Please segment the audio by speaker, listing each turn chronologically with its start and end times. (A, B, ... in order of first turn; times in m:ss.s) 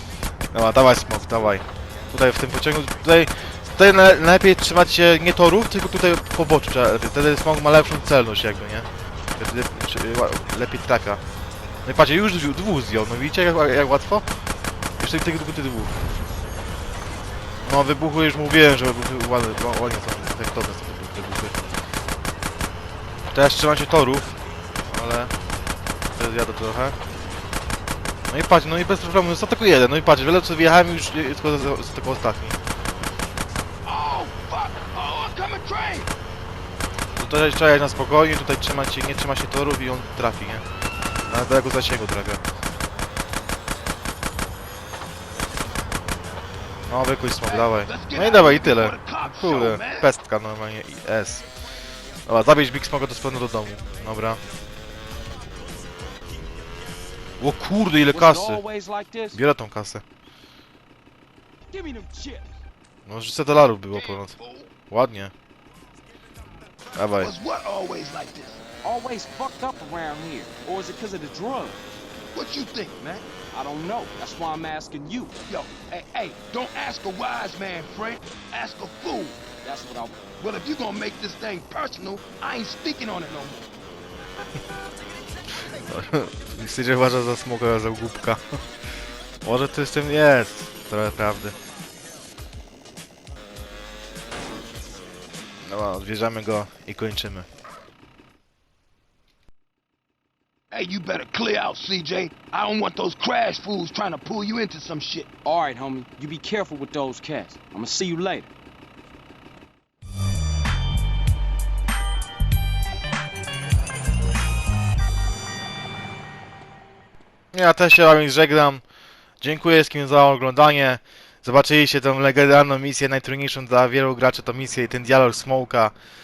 0:00.5-0:11.2 A
0:11.8-0:14.2 A
0:15.0-0:15.9 A
0:17.6-0:21.6 A
0:23.3-0:24.4 A
0:24.9-0:25.3 A
0:26.2-0:27.0 A
0:28.3-0:32.6 A
0:33.8-0:36.1 B
0:37.2-0:40.6 A
0:41.3-0:42.4 A
0:46.9-0:51.4 A
0:47.4-0:50.1 B
0:52.2-0:54.4 A
0:57.4-0:58.6 A
0:58.1-0:59.4 C
0:59.3-1:00.0 A
1:01.7-1:02.6 C
1:03.0-1:04.4 A
1:03.9-1:04.7 B
1:04.9-1:05.3 A
1:06.9-1:07.3 A
1:07.2-1:08.6 B
1:08.8-1:12.0 C
1:12.3-1:13.3 B
1:13.5-1:15.3 C
1:15.5-1:19.4 B
1:19.6-1:20.2 C
1:20.4-1:23.8 B
1:25.6-1:28.6 A
1:29.4-1:31.6 A
1:35.6-1:37.5 A
1:40.7-1:45.3 B
1:45.4-1:48.5 C
1:57.5-1:58.8 A
1:59.4-2:05.9 A